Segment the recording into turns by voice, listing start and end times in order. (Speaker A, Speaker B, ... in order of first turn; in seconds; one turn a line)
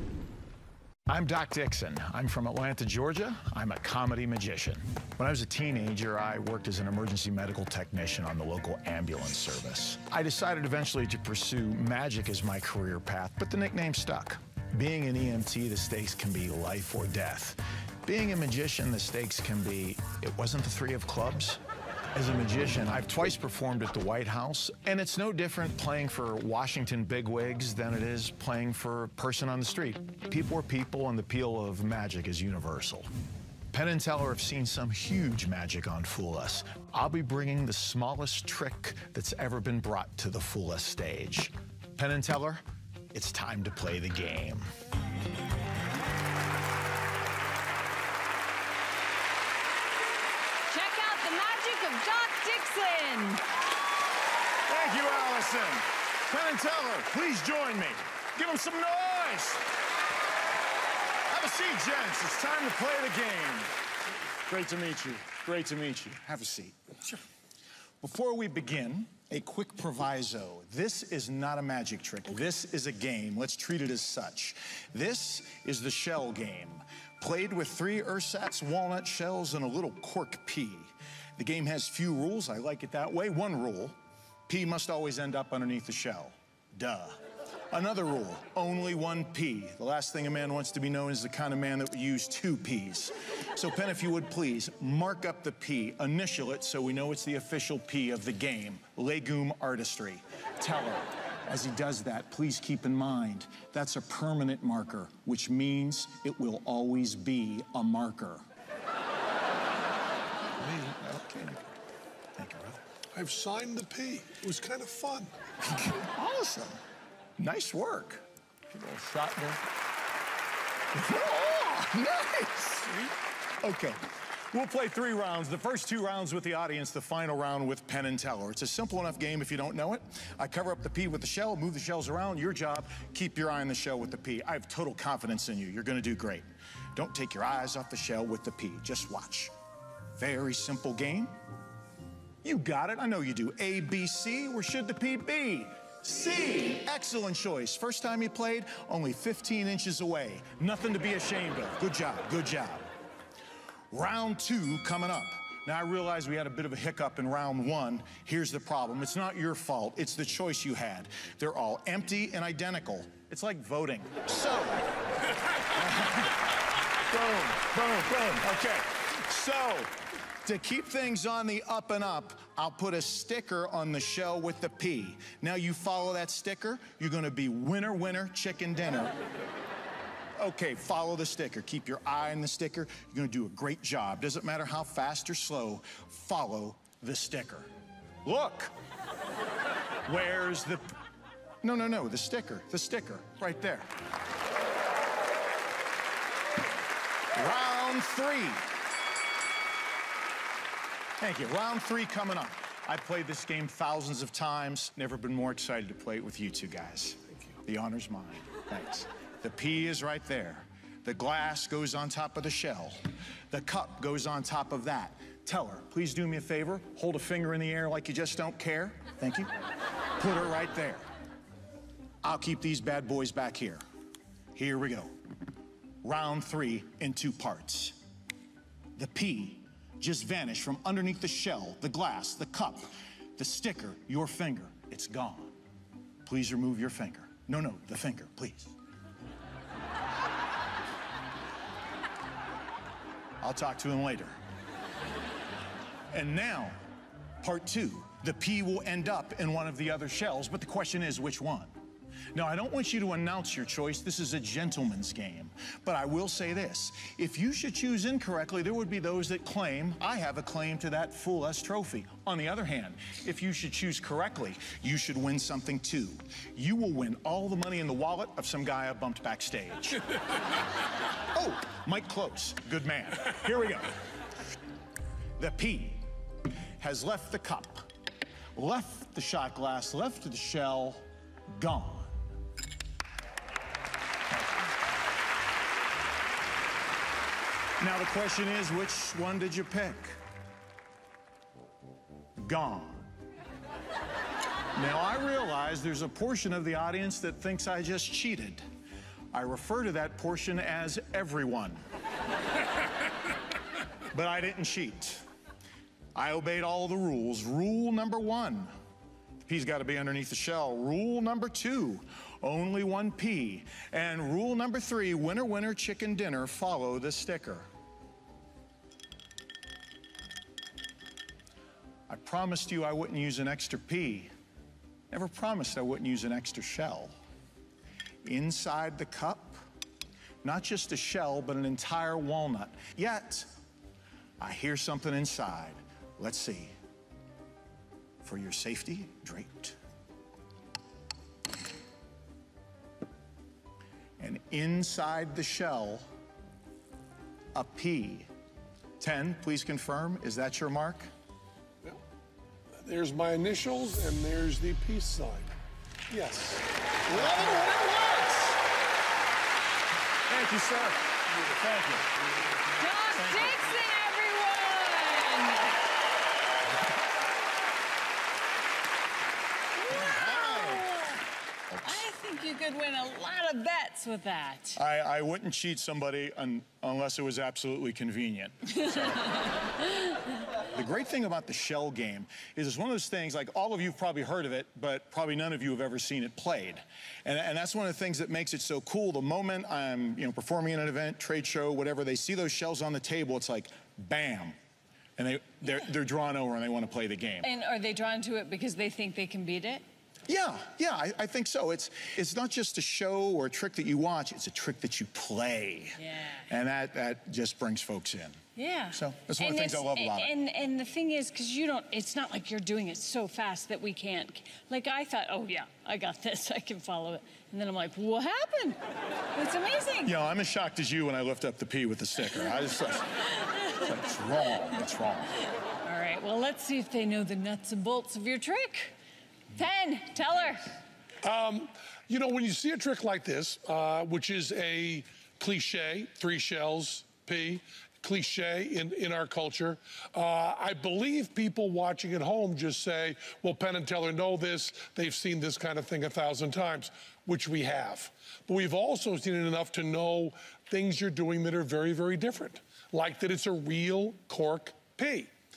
Speaker A: 1.1-21.6
Speaker A: 22.1-33.1
Speaker A: 33.7-44.7
Speaker B: 50.7-53.4
Speaker A: 54.7-59.6
Speaker A: 61.3-63.7
Speaker A: 64.5-66.8
Speaker A: 68.0-84.0
Speaker A: 84.5-87.2
Speaker A: 87.7-108.4
Speaker A: 110.6-111.6
Speaker A: 112.4-112.8
Speaker C: 113.1-115.3
Speaker A: 115.6-116.8
Speaker A: 117.4-119.7
Speaker A: 120.9-123.1
Speaker A: 123.6-124.0
Speaker A: 124.5-139.5
Speaker A: 140.2-141.3
Speaker A: 142.4-152.9
Speaker A: 153.9-164.9
Speaker A: 165.7-166.4
Speaker A: 167.1-179.2
Speaker A: 180.4-187.7
Speaker A: 188.2-188.7
Speaker A: 190.1-190.8
Speaker A: 191.6-193.9
Speaker A: 197.3-198.6
Speaker A: 201.2-213.0
Speaker A: 213.5-219.5
Speaker A: 220.2-221.1
Speaker A: 222.2-223.8
Speaker A: 224.5-225.1
Speaker A: 226.0-228.0
Speaker A: 229.0-235.6
Speaker A: 236.2-238.7
Speaker A: 243.4-244.3
Speaker A: 246.1-246.8
Speaker A: 247.4-251.7
Speaker A: 252.3-270.0
Speaker A: 271.3-274.0
Speaker A: 275.4-276.1
Speaker A: 276.8-277.9
Speaker A: 278.6-282.2
Speaker A: 287.8-290.2
Speaker A: 292.4-293.1
Speaker A: 294.8-298.6
Speaker A: 299.3-301.8
Speaker A: 304.1-305.2
Speaker A: 306.1-308.7
Speaker A: 309.4-317.7
Speaker A: 322.1-324.3
Speaker A: 325.1-327.1
Speaker A: 328.2-329.6
Speaker A: 330.4-333.5
Speaker A: 334.4-336.7
Speaker A: 338.2-339.8
Speaker A: 344.2-346.1
Speaker A: 347.6-348.3
Speaker A: 349.0-351.1
Speaker C: 352.8-355.5
Speaker C: 356.1-357.5
Speaker A: 357.1-358.6
Speaker A: 360.3-362.1
Speaker B: 362.8-365.8
Speaker A: 363.1-363.7
Speaker B: 369.8-371.2
Speaker A: 369.9-370.9
Speaker A: 371.7-372.0
Speaker B: 371.8-374.8
Speaker A: 374.8-379.4
Speaker A: 380.7-394.6
Speaker A: 395.2-397.5
Speaker B: 397.4-399.8
Speaker A: 400.3-408.4
Speaker B: 406.0-406.4
Speaker B: 408.6-418.8
Speaker A: 408.9-410.3
Speaker B: 419.3-420.1
Speaker A: 420.1-425.4
Speaker B: 425.8-428.9
Speaker B: 429.5-430.7
Speaker C: 431.2-455.3